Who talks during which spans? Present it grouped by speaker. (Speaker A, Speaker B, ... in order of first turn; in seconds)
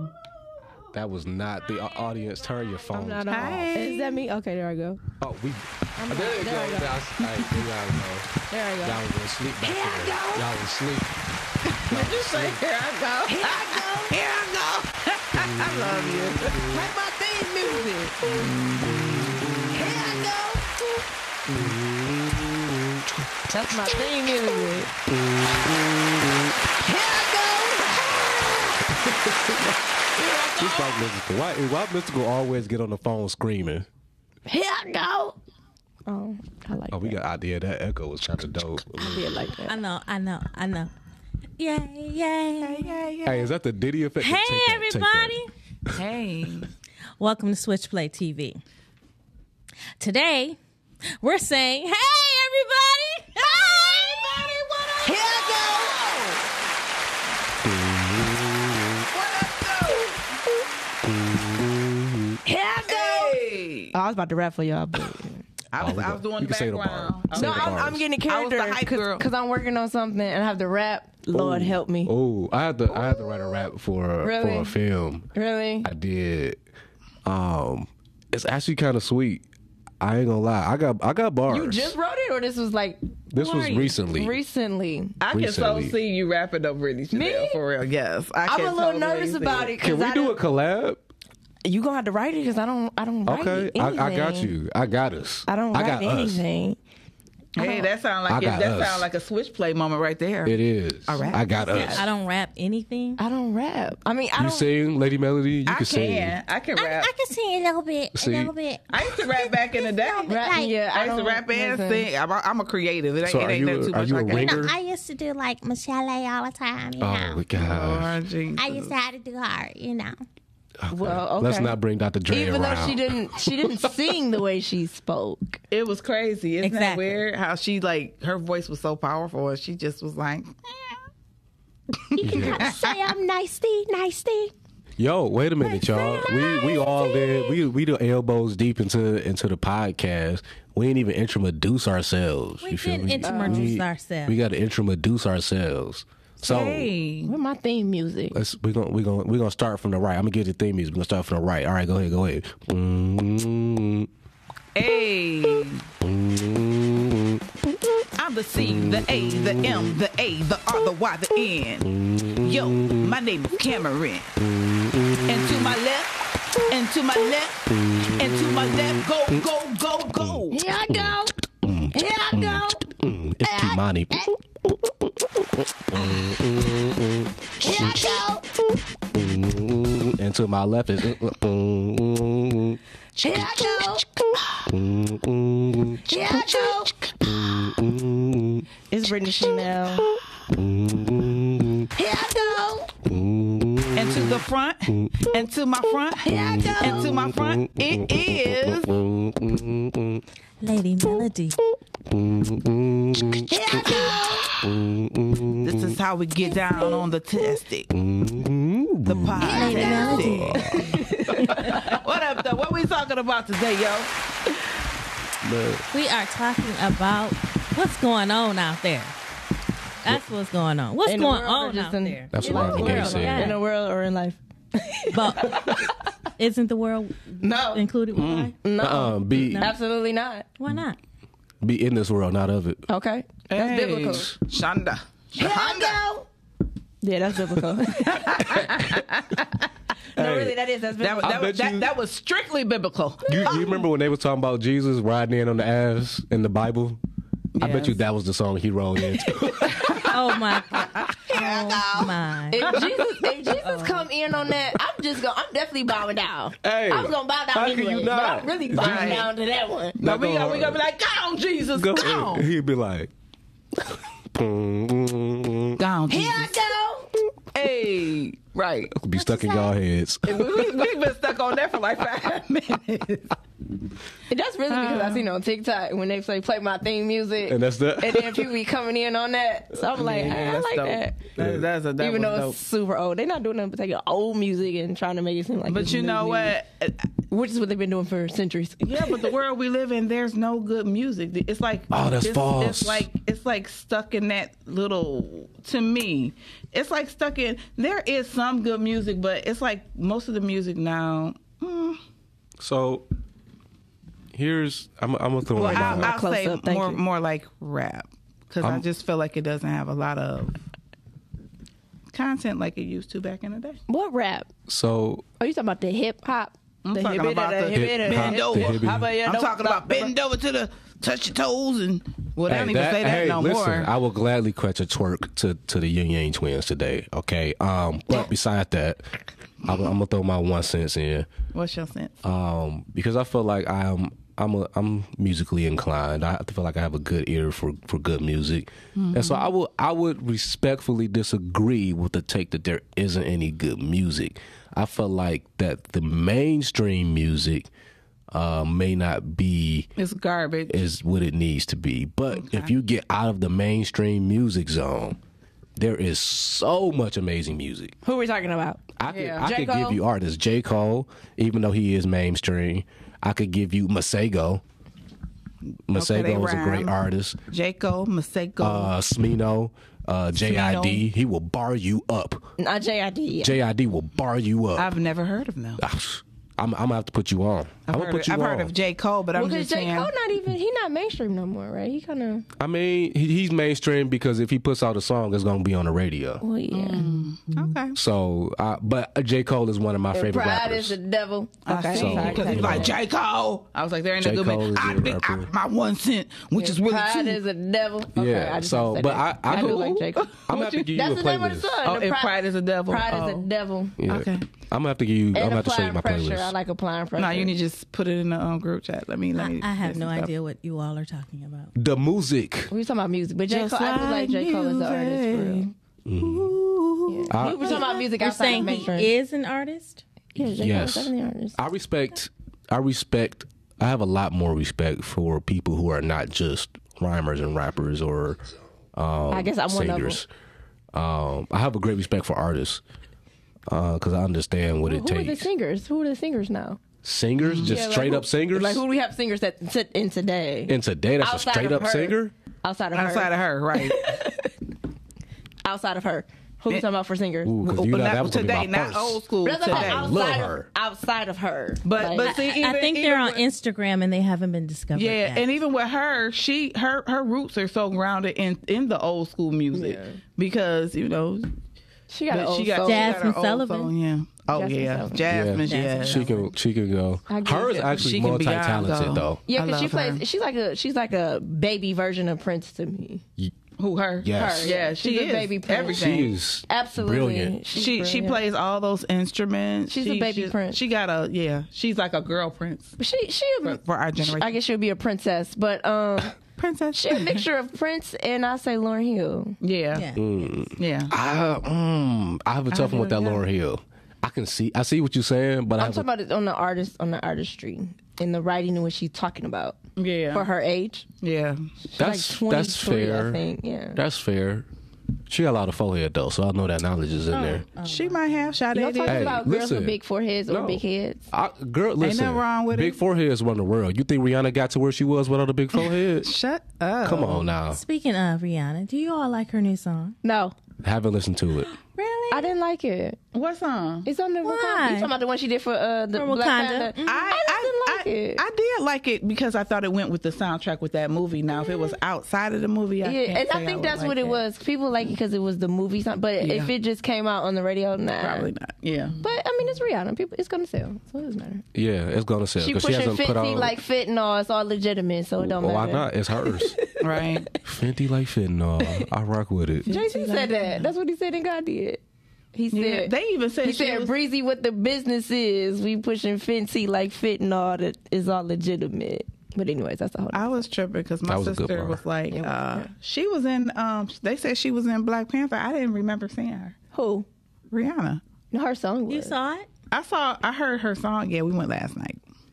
Speaker A: 0.9-3.7, 5.2-11.2, 11.9-12.6, 15.4-16.7, 18.9-20.3, 21.5-23.1, 24.9-26.6, 28.1-29.8, 30.6-33.9, 36.9-39.3, 43.3-45.4, 57.6-59.1, 61.0-62.4, 65.8-68.0, 71.3-75.3, 75.8-76.6, 77.2-79.4, 80.0-81.9, 83.3-84.3, 85.3-86.0, 89.8-91.0, 93.3-96.4, 98.3-99.1, 100.5-102.0, 104.4-106.4, 108.2-108.5, 113.2-114.7, 117.0-118.2, 120.8-123.9, 132.2-132.9, 135.0-146.9, 148.3-154.1, 156.0-157.4, 158.6-159.9, 161.9-163.2, 164.4-165.8, 167.7-169.4, 170.3-174.3, 175.9-178.1, 179.1-182.8, 183.3-183.9, 184.7-186.2, 187.2-188.7, 190.5-191.9, 193.0-194.4, 196.3-200.2, 202.1-206.0, 207.9-211.9, 215.4-215.8, 222.3-223.6, 228.1-229.7, 231.6-232.8, 240.2-240.6, 241.2-241.9, 243.3-247.0, 247.6-250.2, 256.6-259.3, 260.0-260.8, 261.8-263.1, 263.8-265.8, 268.9-270.7, 277.5-278.5, 281.4-281.7, 291.9-293.1, 302.6-303.1, 304.3-306.1, 314.7-315.2, 317.7-319.1, 322.5-331.3, 332.2-347.7, 348.3-349.9, 350.7-355.2, 355.8-358.0, 359.0-364.6, 365.9-367.4, 368.6-372.5, 373.4-374.9, 375.8-378.7, 382.6-386.4, 387.9-391.0, 391.9-393.0, 394.2-395.5, 398.2-401.8, 404.0-406.5, 411.8-412.7, 416.1-416.5, 417.3-417.8, 420.6-428.4, 428.9-430.3, 430.9-432.8, 433.7-435.5, 437.0-438.8, 440.7-442.3, 447.4-450.7, 465.3-469.4, 474.2-474.8, 475.9-477.6, 490.1-496.1, 502.0-503.4, 504.0-504.7, 505.3-507.7, 509.1-510.0, 510.5-516.3, 517.0-517.8, 520.8-521.7, 541.7-543.8, 545.4-546.8, 547.6-549.9, 561.3-562.0
Speaker B: 2.9-5.0, 6.0-7.0, 8.5-9.0, 9.6-10.5, 13.3-14.2, 17.6-18.0, 19.7-20.7, 23.5-24.9, 26.8-28.8, 30.2-31.0, 34.5-35.4, 36.1-37.2, 39.0-39.8, 55.0-56.3, 62.4-65.5, 67.3-72.1, 73.0-73.6, 74.2-74.7, 75.3-75.9, 81.5-85.2, 87.1-87.6, 88.5-90.4, 91.6-94.5, 95.5-96.8, 97.6-97.9, 103.2-104.7, 110.3-112.1, 120.9-121.8, 122.3-125.6, 132.2-134.5, 135.6-137.6, 143.2-143.8, 147.3-148.4, 170.5-171.4, 171.9-172.9, 173.4-174.3, 177.6-178.4, 183.2-184.2, 186.1-186.9, 188.9-190.1, 191.9-192.9, 196.2-197.2, 203.5-204.7, 209.4-211.9, 221.1-225.9, 227.4-227.8, 228.6-230.5, 232.9-234.3, 235.3-236.3, 237.0-238.9, 240.2-241.4, 252.5-260.0, 266.1-267.2, 269.2-269.7, 274.3-281.2, 282.0-286.6, 287.3-289.3, 305.7-307.0, 313.9-314.5, 315.4-320.1, 358.0-358.8, 359.4-360.0, 372.6-373.6, 379.4-382.5, 386.4-387.1, 390.1-392.9, 396.5-400.4, 400.9-404.0, 405.3-407.6, 412.7-415.7, 417.1-419.1, 420.4-421.6, 429.3-430.2, 434.9-436.8, 437.6-444.5, 445.6-447.5, 449.4-452.3, 459.7-460.2, 462.1-463.3, 464.5-465.3, 467.3-468.1, 469.5-473.2, 474.3-478.4, 479.9-480.8, 483.0-486.4, 486.9-489.6, 495.8-499.8, 500.3-501.1, 501.8-504.0, 508.7-511.3, 520.2-520.5, 522.3-523.2, 524.0-528.4, 533.0-538.5, 539.2-541.6, 542.6-547.2, 549.9-552.0, 552.5-560.6, 562.3-562.9, 566.9-567.3, 568.5-569.4
Speaker C: 3.3-4.2, 7.2-7.5, 11.9-19.7, 21.5-21.7, 42.6-43.5, 45.9-46.7, 55.0-56.3, 59.1-60.2, 62.9-64.0, 65.7-69.3, 85.2-89.8, 97.6-102.1, 105.7-107.1, 108.9-114.7, 117.6-118.9, 125.7-131.0, 131.9-133.0, 146.4-147.3, 154.8-155.9, 158.2-164.4, 165.3-170.6, 193.9-198.9, 205.6-207.9, 209.1-214.1, 233.5-236.0, 238.1-239.5, 241.0-243.8, 247.6-248.0, 251.0-252.1, 252.6-253.0, 258.7-259.3, 260.0-262.5, 265.8-266.5, 267.5-268.9, 270.3-273.4, 274.7-275.2, 279.9-282.6, 285.7-287.0, 288.8-302.0, 305.5-310.6, 312.1-313.8, 316.9-323.9, 331.5-332.2, 338.9-339.4, 350.0-350.8, 352.3-352.7, 359.1-359.5, 365.9-367.0, 367.5-368.9, 370.4-371.0, 374.8-375.8, 377.9-380.1, 386.7-388.0, 391.7-397.4, 399.5-400.9, 401.8-403.5, 404.1-404.5, 407.2-410.3, 413.5-418.9, 437.4-437.8, 442.9-444.2, 447.6-450.1, 451.8-453.4, 454.9-461.5, 462.3-466.2, 467.6-470.2, 473.8-476.3, 477.7-483.0, 483.6-484.6, 486.6-487.4, 489.6-490.1, 490.8-491.1, 492.7-493.4, 500.0-500.5, 501.2-501.6, 507.8-509.4, 512.0-513.0, 515.8-517.5, 522.0-522.5, 523.3-524.1, 527.0-534.4, 536.4-536.7, 538.2-539.2, 547.0-547.5, 549.9-550.9, 552.7-554.1, 560.3-566.8, 567.7-568.2, 569.9-572.2
Speaker D: 39.7-40.9, 41.6-43.0, 44.2-45.5, 47.2-48.6, 50.0-50.6, 51.2-55.4, 101.7-103.2, 106.8-110.8, 114.3-117.4, 118.5-120.2, 126.6-127.2, 142.6-144.4, 200.6-201.6, 209.4-210.8, 215.9-219.1, 220.0-223.6, 225.1-228.6, 229.4-229.7, 230.6-231.0, 249.9-252.8, 409.4-411.7, 417.8-420.0, 452.2-455.5, 462.8-463.9, 465.6-466.5, 489.9-490.5, 507.3-508.6, 517.7-520.2, 524.4-525.1, 526.1-527.3, 569.1-569.7